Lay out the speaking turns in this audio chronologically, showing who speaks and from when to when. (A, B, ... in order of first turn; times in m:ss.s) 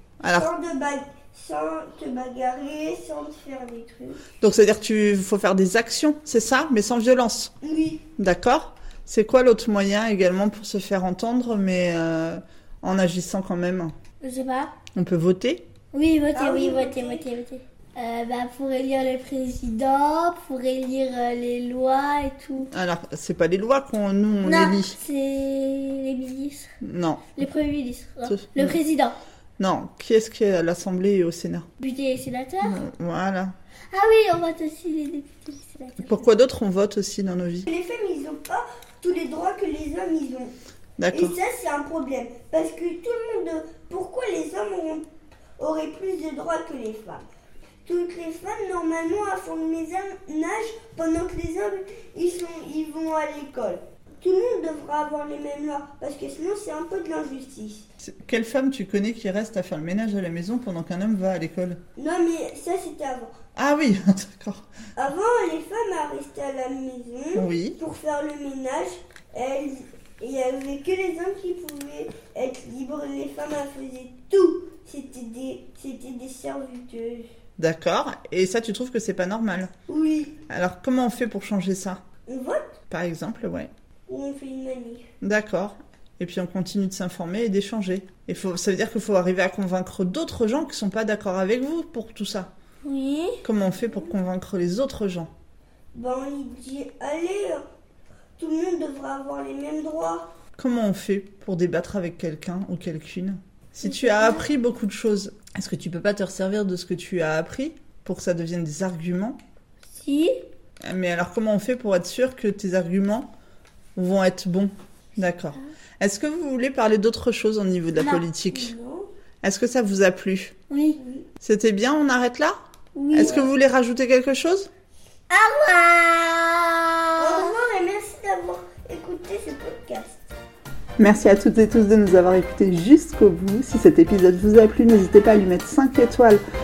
0:00.2-0:00.5 A
0:00.3-0:04.2 B
0:04.4-0:07.5 A
0:07.6-0:08.1 B
0:08.2-0:13.9 A
0:14.2-0:14.7 C
0:15.0-0:15.6 A
0:15.9-0:22.7 C
0:16.4-0:17.2 B
0:22.7-0:25.0 A
0:24.4-0:26.7 C
0:26.8-0:27.4 A
0:27.4-0:29.2 C
0:28.3-0:28.8 A
0:29.6-0:31.7 A
0:31.8-0:32.8 C
0:32.6-0:33.5 A
0:33.9-0:36.3 C
0:36.1-0:37.7 A
0:37.7-0:40.5 B
0:41.0-0:41.4 A
0:41.1-0:45.0 B
0:45.6-0:47.2 B
0:47.9-0:57.8 B
0:58.0-1:01.8 A
1:02.0-1:03.3 B
1:03.6-1:04.6 A
1:05.0-1:17.2 B
1:07.4-1:07.8 A
1:17.6-1:19.7 A
1:19.9-1:20.4 B
1:20.5-1:22.0 A
1:22.3-1:22.7 B
1:22.9-1:23.7 A
1:24.1-1:25.1 B
1:25.2-1:32.5 A
1:32.8-1:33.4 B
1:33.4-1:35.3 A
1:35.9-1:37.6 B
1:38.4-1:40.3 B
1:40.6-1:49.4 A
1:43.8-1:44.4 B
1:50.0-1:50.4 C
1:50.8-1:53.3 A
1:54.0-1:58.7 A
1:58.0-1:58.2 C
1:58.4-1:59.1 B
1:59.4-2:00.6 A
2:00.7-2:01.0 C
2:01.0-2:01.3 B
2:01.4-2:02.6 A
2:03.0-2:03.3 C
2:03.0-2:03.5 B
2:03.1-2:04.7 A
2:05.3-2:07.6 C
2:07.2-2:10.2 B
2:11.0-2:16.4 A